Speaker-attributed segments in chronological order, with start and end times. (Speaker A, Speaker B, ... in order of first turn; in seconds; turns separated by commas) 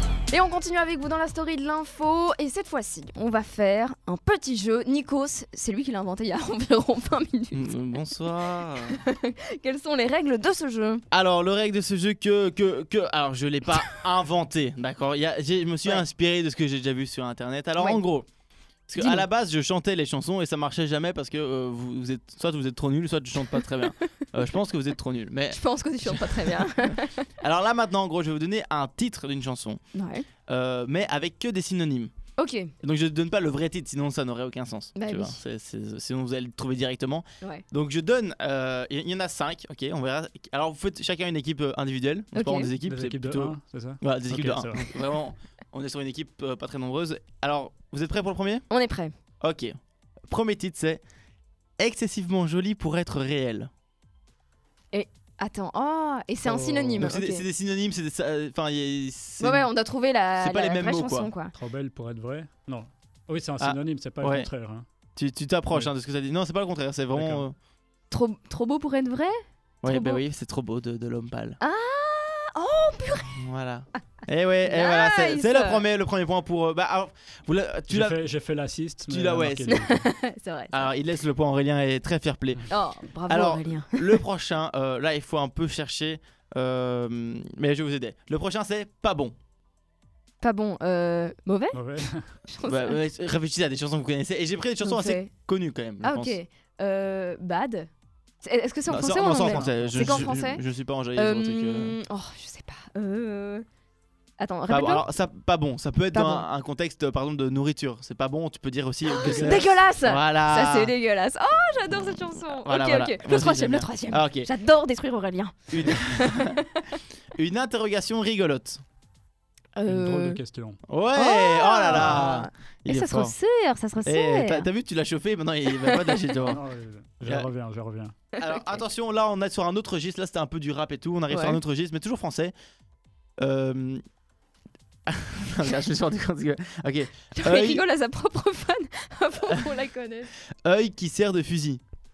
Speaker A: 0.3-7.8, Speaker B: 7.5-9.0, Speaker A: 8.9-11.0, Speaker B: 11.1-18.2, Speaker A: 17.8-18.0, Speaker B: 18.9-26.7, Speaker A: 18.9-19.2, Speaker A: 25.5-27.2, Speaker B: 27.4-29.8, Speaker A: 29.9-30.3, Speaker B: 30.5-32.1, Speaker A: 32.4-32.7, Speaker B: 32.8-48.6, Speaker A: 34.9-35.4, Speaker A: 42.3-42.7, Speaker C: 42.8-45.0, Speaker A: 48.7-49.1, Speaker B: 49.4-49.7, Speaker B: 50.3-51.0, Speaker B: 51.8-53.7, Speaker A: 54.9-57.4, Speaker C: 56.4-57.1, Speaker B: 57.0-59.7, Speaker A: 59.4-61.5, Speaker B: 60.4-61.3, Speaker C: 61.5-64.9, Speaker B: 63.6-64.5, Speaker B: 65.2-67.5, Speaker C: 67.1-67.4, Speaker A: 68.1-70.2, Speaker B: 69.8-71.6, Speaker A: 71.6-73.4, Speaker B: 73.3-78.2, Speaker A: 74.6-75.8, Speaker C: 77.9-80.1, Speaker B: 79.1-79.8, Speaker A: 79.7-80.9, Speaker B: 80.7-82.7, Speaker A: 82.7-84.2, Speaker B: 83.3-89.3, Speaker A: 90.4-91.8, Speaker C: 91.7-92.3, Speaker A: 92.5-93.0, Speaker B: 92.7-96.3, Speaker A: 94.8-95.3, Speaker A: 96.0-97.9, Speaker A: 98.4-100.6, Speaker B: 98.9-102.0, Speaker C: 99.3-100.4, Speaker A: 101.1-103.6, Speaker A: 104.4-105.0, Speaker B: 104.7-110.9, Speaker A: 106.1-106.5, Speaker A: 109.1-116.9, Speaker B: 112.1-114.5, Speaker B: 115.7-116.6, Speaker B: 117.3-118.8, Speaker A: 119.8-120.4, Speaker C: 119.8-120.8, Speaker B: 120.8-123.3, Speaker A: 121.1-124.7, Speaker C: 121.9-122.2, Speaker B: 124.0-126.6, Speaker A: 125.7-126.5, Speaker C: 126.4-128.1, Speaker B: 127.2-127.5, Speaker A: 128.3-128.8, Speaker B: 128.4-132.5, Speaker A: 131.3-131.6, Speaker B: 133.4-134.0, Speaker B: 135.1-137.8, Speaker A: 137.3-140.3, Speaker B: 139.5-139.7, Speaker B: 140.6-141.8